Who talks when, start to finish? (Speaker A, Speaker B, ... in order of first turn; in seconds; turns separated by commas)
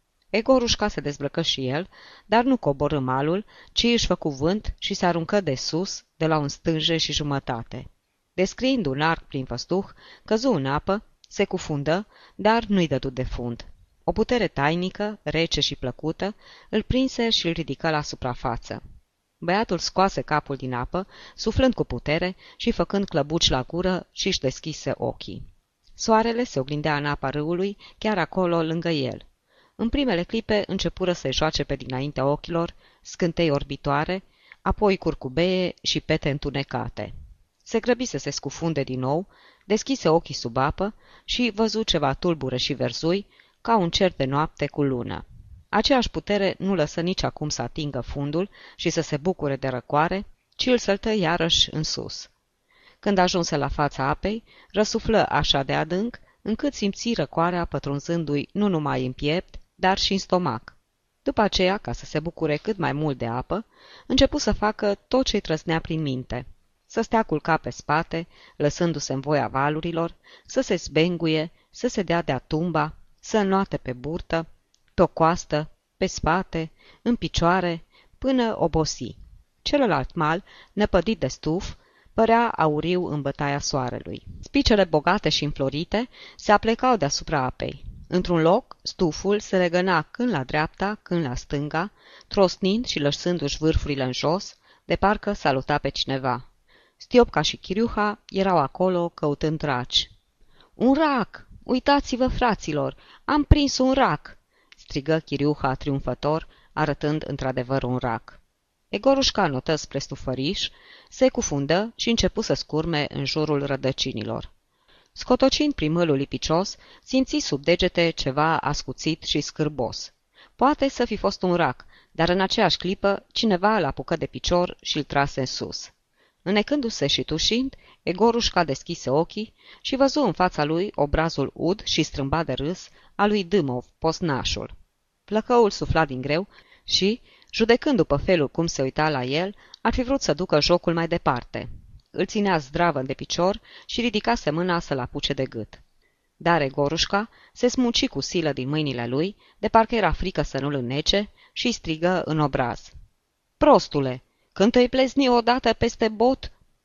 Speaker A: 0.3-18.8, Speaker A: 19.4-25.4, Speaker A: 25.9-29.2, Speaker A: 29.8-37.1, Speaker A: 37.6-52.3, Speaker A: 53.0-74.4, Speaker A: 75.0-96.4, Speaker A: 97.0-100.1, Speaker A: 100.8-108.4, Speaker A: 108.9-114.5, Speaker A: 115.1-125.9, Speaker A: 126.4-134.7, Speaker A: 135.3-145.8, Speaker A: 146.4-152.9, Speaker A: 153.6-156.5